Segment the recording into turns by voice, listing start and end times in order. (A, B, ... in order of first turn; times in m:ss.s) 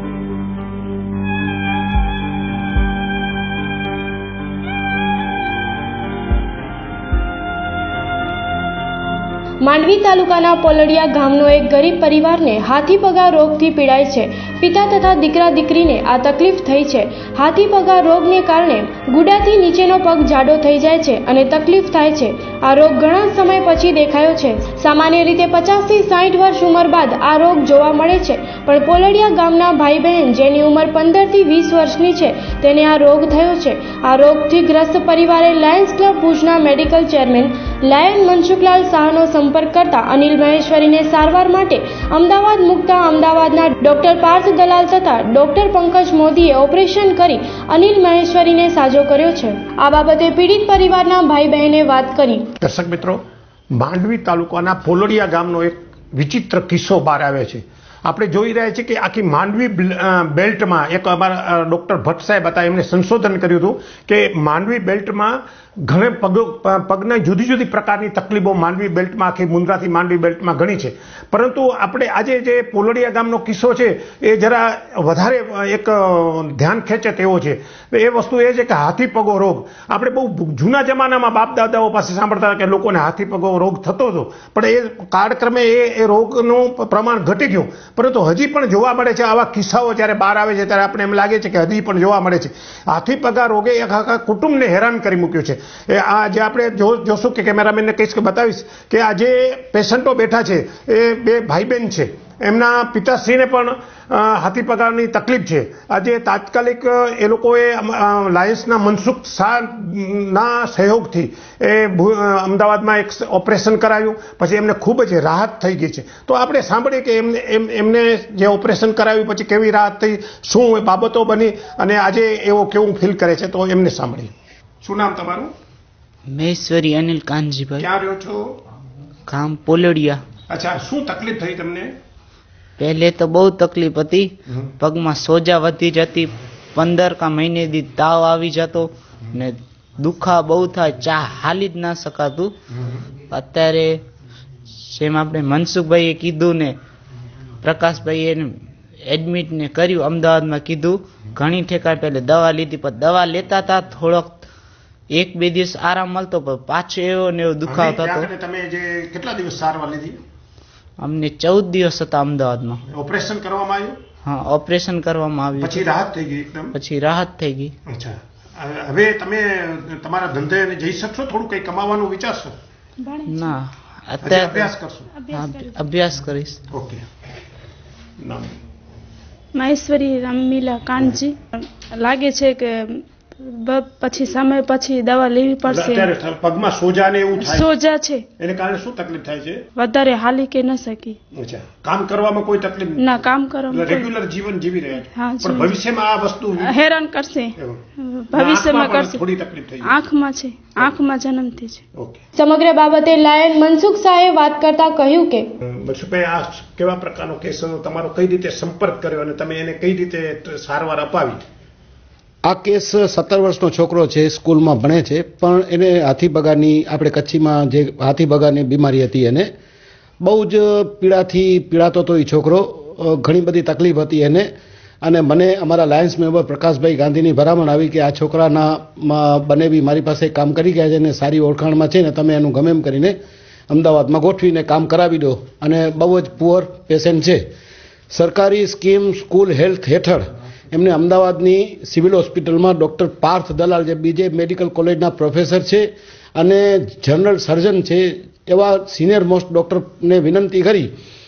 0:09.6-0:52.5 A
0:52.6-0:53.2 B
0:53.7-2:05.5 B
2:06.3-2:07.9 C
2:07.8-2:08.6 B
2:09.3-2:10.2 C
2:10.5-2:11.9 B
2:12.8-2:22.5 C
2:23.3-2:24.0 C
2:24.9-2:26.8 C
2:27.6-2:28.5 C
2:29.1-2:34.5 C
2:35.1-2:38.3 C
2:37.7-2:40.2 B
2:41.0-2:42.8 C
2:42.9-2:44.0 B
2:44.2-2:45.9 C
2:45.6-2:46.8 B
2:46.7-2:47.7 C
2:47.9-2:52.6 B
2:53.0-2:53.6 D
2:53.3-2:54.7 C
2:54.2-2:55.1 B
2:55.2-2:55.7 D
2:55.3-2:56.6 C
2:56.7-2:57.0 B
2:58.2-2:58.6 B
2:59.6-3:06.1 D
3:05.7-3:07.7 B
3:07.4-3:08.3 D
3:08.4-3:09.6 B
3:09.8-3:11.2 D
3:11.4-3:13.0 B
3:13.0-3:14.1 D
3:13.7-3:16.7 B
3:15.1-3:15.8 D
3:16.6-3:19.2 D
3:18.3-3:19.9 B
3:19.8-3:21.8 D
3:22.0-3:22.2 B
3:22.4-3:25.5 A
3:25.6-3:31.4 B
3:32.4-3:39.5 E
3:40.2-3:44.5 E
3:45.0-3:53.2 E
3:53.7-3:57.5 E
3:58.1-4:10.9 E